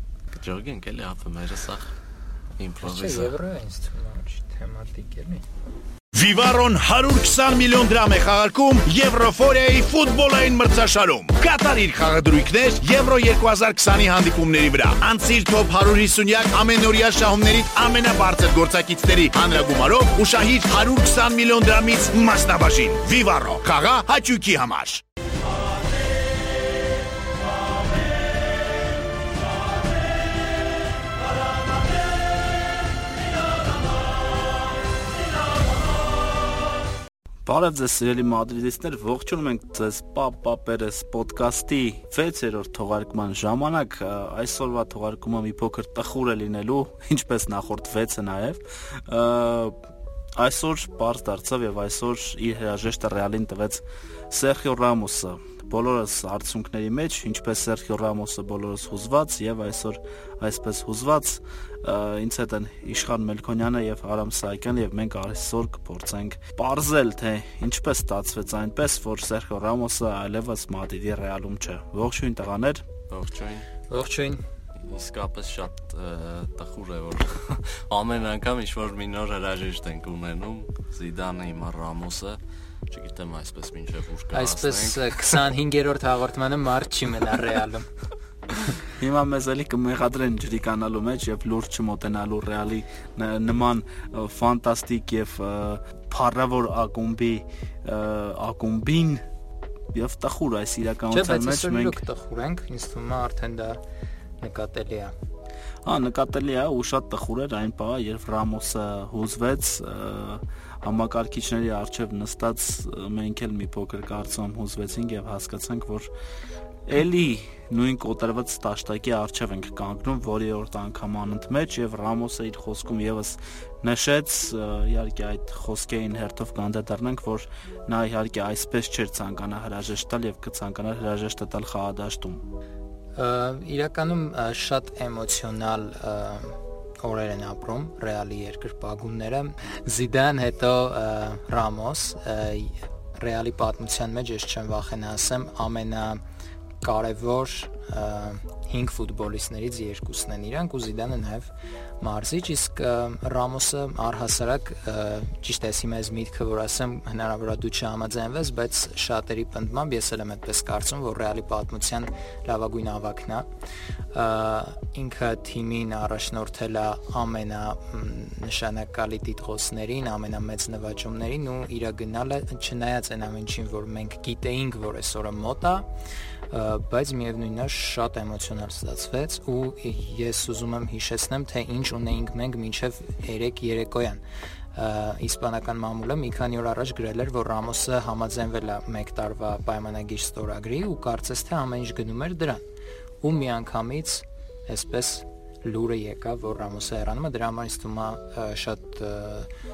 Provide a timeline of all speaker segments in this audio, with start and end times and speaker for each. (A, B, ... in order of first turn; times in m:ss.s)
0:00.3-0:01.9 A
0:02.6-0:03.3 A
0:02.8-0:05.4 B
0:06.1-0:25.0 C
0:37.4-0:49.8 D
0:50.4-1:12.8 D
1:13.1-1:13.7 A
1:13.9-1:14.4 B
1:14.8-1:25.4 A
1:24.3-1:27.9 B
1:29.0-1:39.2 D
1:39.9-1:42.0 D
1:41.1-1:43.8 B
1:44.4-1:45.1 B
1:45.8-1:56.1 D
1:56.8-2:12.4 D
2:13.2-2:26.2 B
2:26.8-2:43.5 B
2:44.1-2:55.9 B
2:56.5-3:04.2 B
3:04.7-3:12.6 B
3:13.2-3:19.5 B